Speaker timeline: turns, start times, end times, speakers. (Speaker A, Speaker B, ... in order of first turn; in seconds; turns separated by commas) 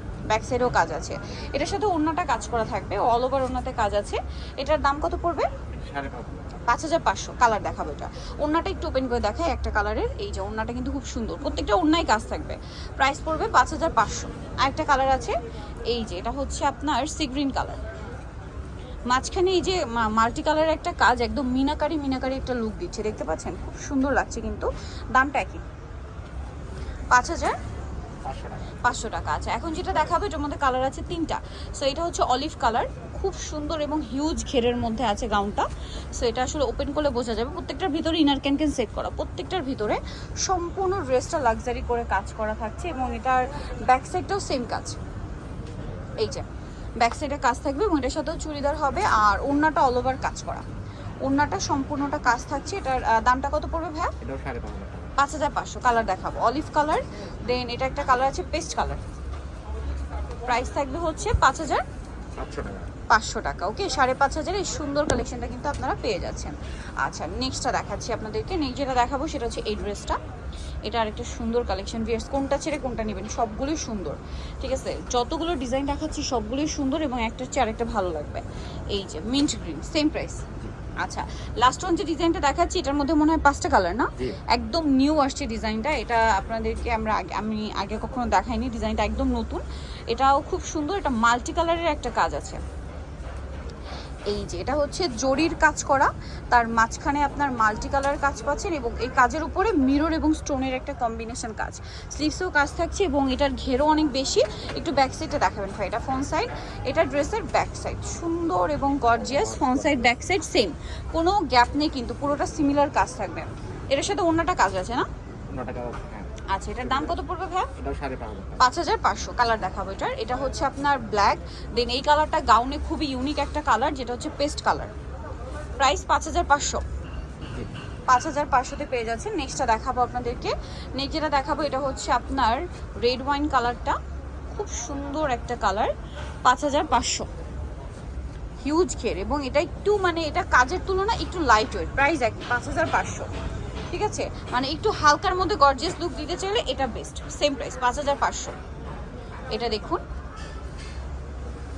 Speaker A: 0.3-5.5, Speaker B: 5.7-6.6, Speaker A: 6.7-15.4, Speaker A: 15.9-17.8, Speaker A: 19.1-25.6, Speaker A: 27.1-27.6, Speaker B: 28.2-28.8, Speaker A: 28.8-45.0, Speaker A: 46.2-46.5, Speaker A: 47.0-50.6, Speaker A: 51.2-54.1, Speaker B: 54.2-55.1, Speaker A: 55.2-59.0, Speaker A: 60.5-61.8, Speaker B: 62.4-62.9, Speaker A: 63.1-70.2, Speaker A: 70.9-80.5, Speaker A: 81.0-92.6, Speaker A: 94.3-115.1, Speaker B: 109.2-110.1, Speaker B: 115.5-116.3, Speaker A: 116.5-117.7, Speaker B: 116.8-117.2, Speaker B: 117.8-118.7, Speaker A: 118.6-124.9, Speaker A: 125.8-126.8, Speaker A: 128.1-134.0, Speaker A: 134.5-135.9, Speaker A: 136.4-137.3, Speaker A: 138.6-143.3, Speaker A: 143.9-148.6, Speaker A: 149.5-150.0